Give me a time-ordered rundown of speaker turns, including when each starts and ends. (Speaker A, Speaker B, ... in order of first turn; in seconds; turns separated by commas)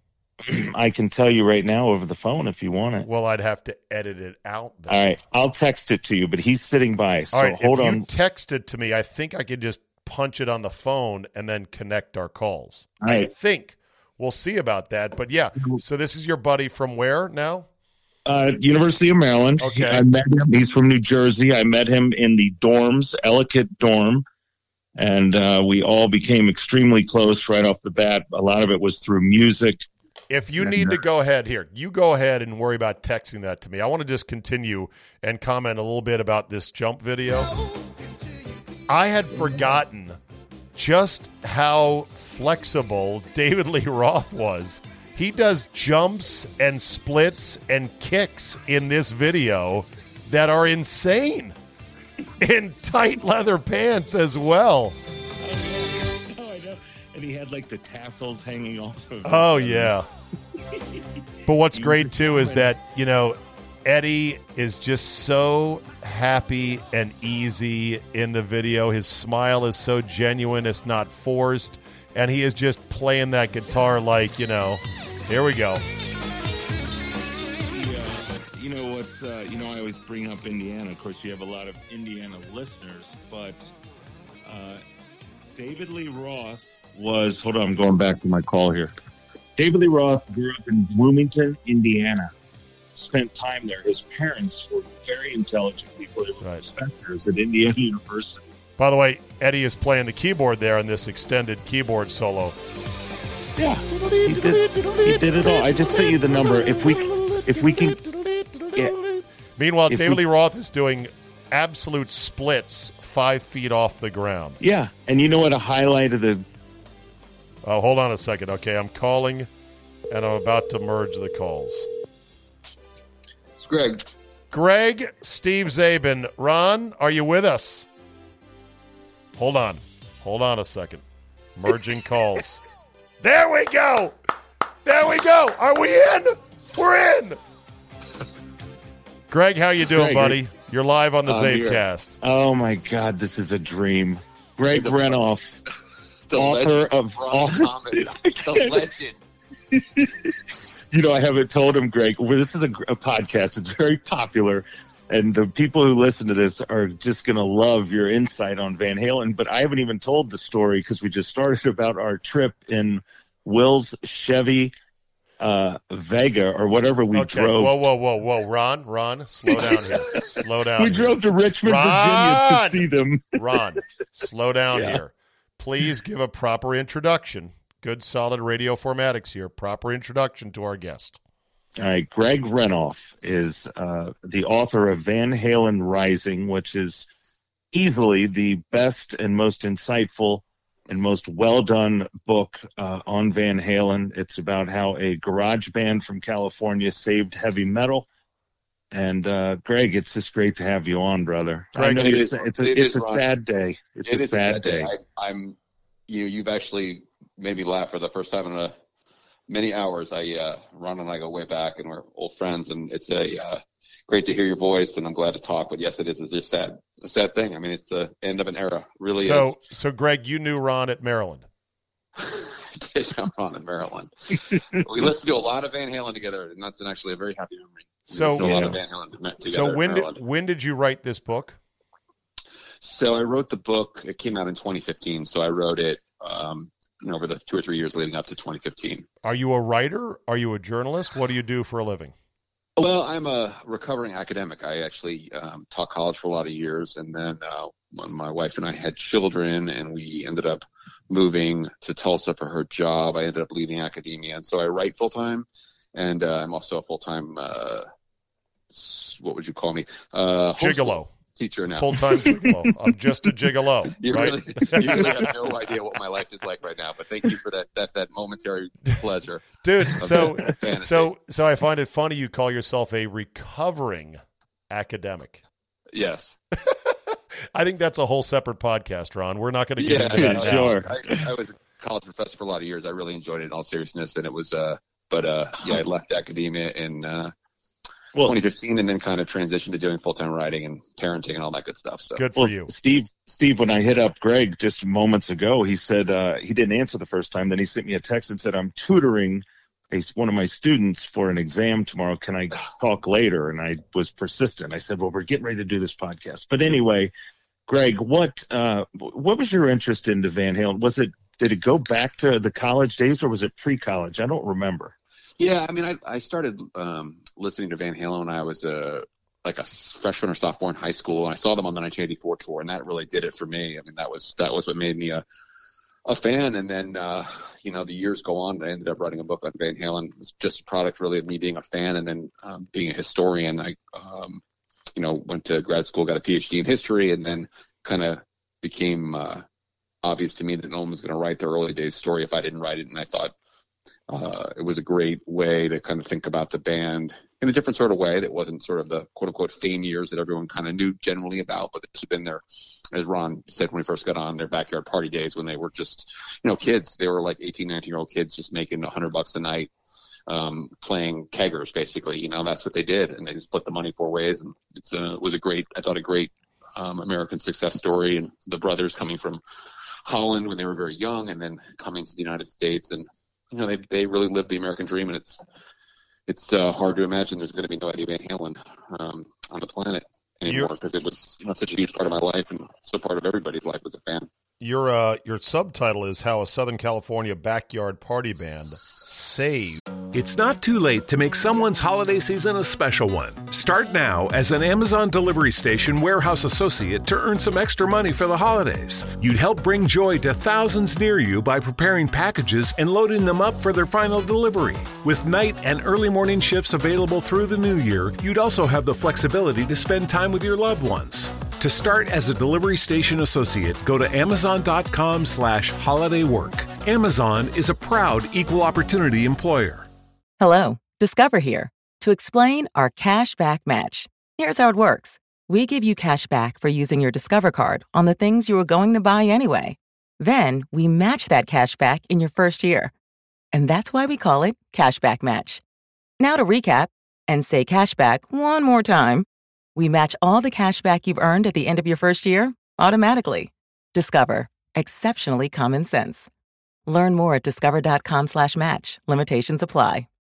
Speaker A: 0.5-3.1, Speaker B: 3.0-5.1, Speaker A: 4.9-8.1, Speaker B: 7.3-17.7, Speaker A: 13.0-13.3, Speaker A: 18.2-24.2, Speaker B: 19.6-20.0, Speaker A: 25.0-29.8, Speaker B: 30.3-37.5, Speaker A: 30.6-31.0, Speaker B: 38.9-40.2, Speaker B: 40.8-51.5, Speaker B: 52.4-55.0, Speaker A: 55.4-59.9, Speaker B: 59.2-60.1, Speaker B: 61.5-75.8, Speaker A: 61.7-62.7, Speaker A: 77.7-83.7, Speaker A: 84.5-84.8, Speaker A: 85.5-88.9, Speaker A: 89.6-92.3, Speaker A: 93.0-98.5, Speaker B: 96.4-96.7, Speaker B: 98.8-102.6, Speaker A: 103.6-108.0, Speaker B: 103.9-114.6, Speaker A: 109.9-110.2, Speaker A: 114.6-116.5, Speaker B: 117.6-119.5, Speaker B: 120.1-121.9, Speaker C: 123.6-124.1, Speaker B: 124.5-127.9, Speaker B: 129.4-131.0, Speaker B: 131.6-132.6, Speaker B: 133.2-134.1, Speaker B: 134.8-137.4, Speaker B: 139.3-142.1, Speaker A: 139.9-140.4, Speaker C: 141.3-141.8, Speaker A: 142.2-145.6, Speaker C: 144.7-145.2, Speaker C: 146.3-149.2, Speaker A: 146.3-149.0, Speaker A: 149.7-150.3, Speaker A: 150.9-164.7, Speaker A: 165.4-167.8, Speaker B: 167.1-181.2, Speaker A: 169.5-173.6, Speaker A: 174.7-175.0, Speaker A: 181.8-187.1, Speaker A: 187.7-198.1, Speaker A: 198.9-204.9, Speaker B: 201.7-202.2, Speaker C: 201.9-203.2, Speaker C: 204.1-205.6, Speaker C: 206.1-208.8, Speaker C: 209.5-219.6, Speaker B: 219.1-221.4, Speaker C: 222.2-224.1, Speaker C: 224.8-230.2, Speaker B: 228.1-228.8, Speaker A: 228.3-228.8, Speaker B: 229.4-231.6, Speaker C: 232.8-239.1, Speaker B: 239.2-242.1, Speaker C: 242.8-257.9, Speaker C: 258.7-262.0, Speaker B: 260.6-261.1, Speaker B: 261.7-265.3, Speaker A: 262.3-262.7, Speaker C: 264.0-271.1, Speaker A: 264.8-265.3, Speaker B: 269.6-275.4, Speaker A: 270.0-270.6, Speaker C: 275.9-276.4, Speaker B: 276.6-276.9, Speaker B: 277.6-280.8, Speaker C: 279.8-287.3, Speaker A: 280.1-281.3, Speaker C: 288.2-292.2, Speaker B: 292.1-292.7, Speaker A: 292.4-307.1, Speaker A: 307.7-314.9, Speaker C: 315.4-325.2, Speaker C: 326.1-334.4, Speaker C: 335.0-339.4, Speaker C: 340.0-343.3, Speaker C: 344.1-359.7, Speaker C: 360.3-369.4, Speaker C: 370.1-375.4, Speaker C: 376.3-384.3, Speaker B: 380.5-380.7, Speaker B: 384.6-389.8, Speaker D: 390.1-419.9, Speaker E: 420.4-432.9, Speaker E: 433.5-435.6, Speaker E: 436.2-446.3, Speaker E: 446.9-450.1